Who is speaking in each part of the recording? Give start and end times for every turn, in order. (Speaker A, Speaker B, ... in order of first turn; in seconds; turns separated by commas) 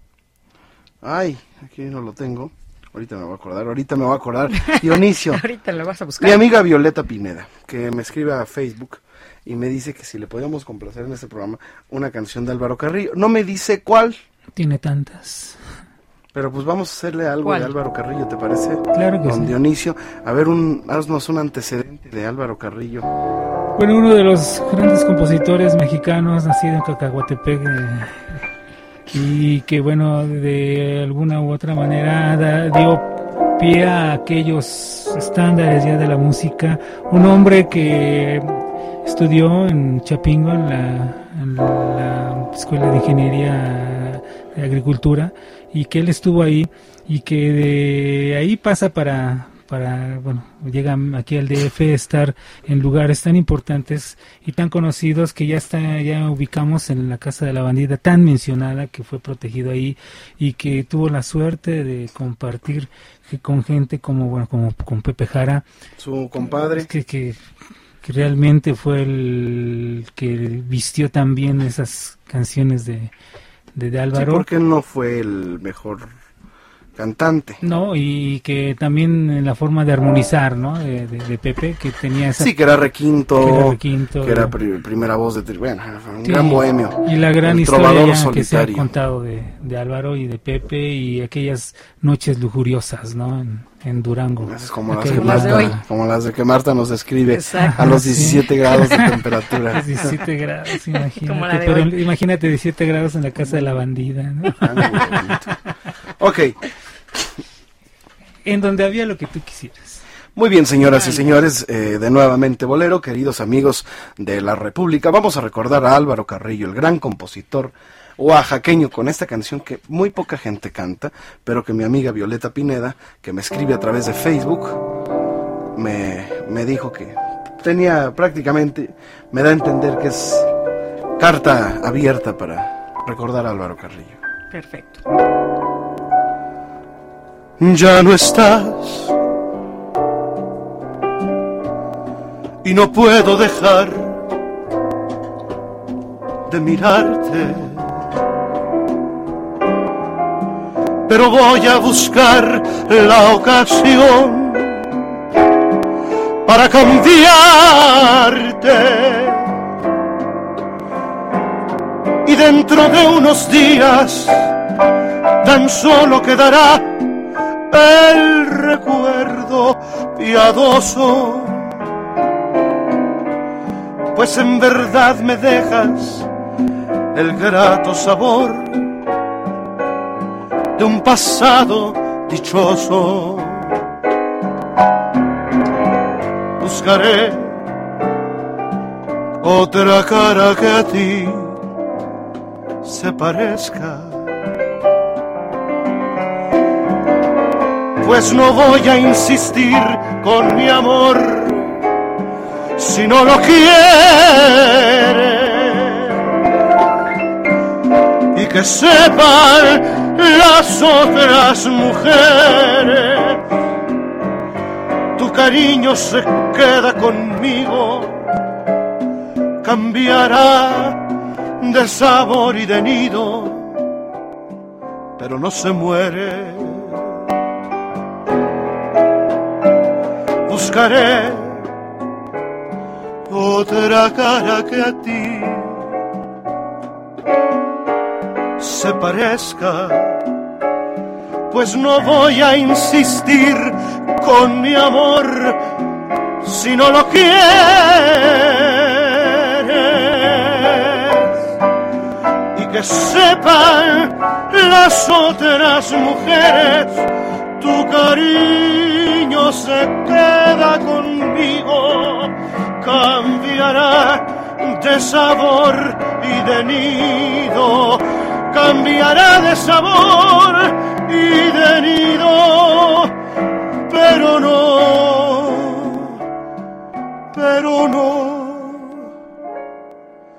Speaker A: 1.0-5.4, Speaker B: 4.6-6.4, Speaker A: 6.2-14.2, Speaker C: 14.6-15.6, Speaker A: 16.3-23.1, Speaker B: 17.4-17.7, Speaker C: 18.9-19.5, Speaker C: 23.8-28.4, Speaker C: 29.1-65.6, Speaker A: 66.0-66.9, Speaker C: 66.7-67.4, Speaker C: 68.0-73.1, Speaker C: 73.7-74.5, Speaker A: 74.1-76.1, Speaker A: 77.0-77.6, Speaker C: 77.6-82.5, Speaker A: 82.4-88.9, Speaker C: 83.3-84.5, Speaker C: 86.2-95.8, Speaker A: 94.4-100.1, Speaker B: 95.1-95.7, Speaker B: 97.2-98.8, Speaker C: 97.6-99.1, Speaker C: 99.7-105.1, Speaker B: 101.2-102.0, Speaker A: 104.6-105.5, Speaker A: 106.2-106.6, Speaker C: 108.4-110.0, Speaker A: 110.3-124.8, Speaker B: 110.9-111.2, Speaker A: 125.7-130.5, Speaker A: 131.2-134.2, Speaker B: 134.5-135.0, Speaker A: 137.6-139.1, Speaker A: 142.6-144.2, Speaker A: 146.5-148.0, Speaker A: 151.1-155.0, Speaker A: 156.4-159.6, Speaker A: 162.2-164.5, Speaker A: 165.4-167.0, Speaker A: 167.7-171.7, Speaker A: 174.1-176.3, Speaker A: 177.1-178.9, Speaker A: 180.8-183.8, Speaker A: 186.6-187.6, Speaker A: 189.4-191.6, Speaker A: 192.8-194.3, Speaker A: 198.0-201.7, Speaker A: 202.8-206.3, Speaker A: 208.3-213.4, Speaker A: 215.2-218.3, Speaker A: 219.6-221.0, Speaker A: 221.6-223.8, Speaker A: 225.2-227.1, Speaker A: 230.5-231.7, Speaker A: 233.3-235.8, Speaker A: 238.6-240.2, Speaker A: 241.5-245.6, Speaker A: 246.4-251.4, Speaker A: 252.5-273.1, Speaker A: 273.9-276.2, Speaker A: 277.3-279.1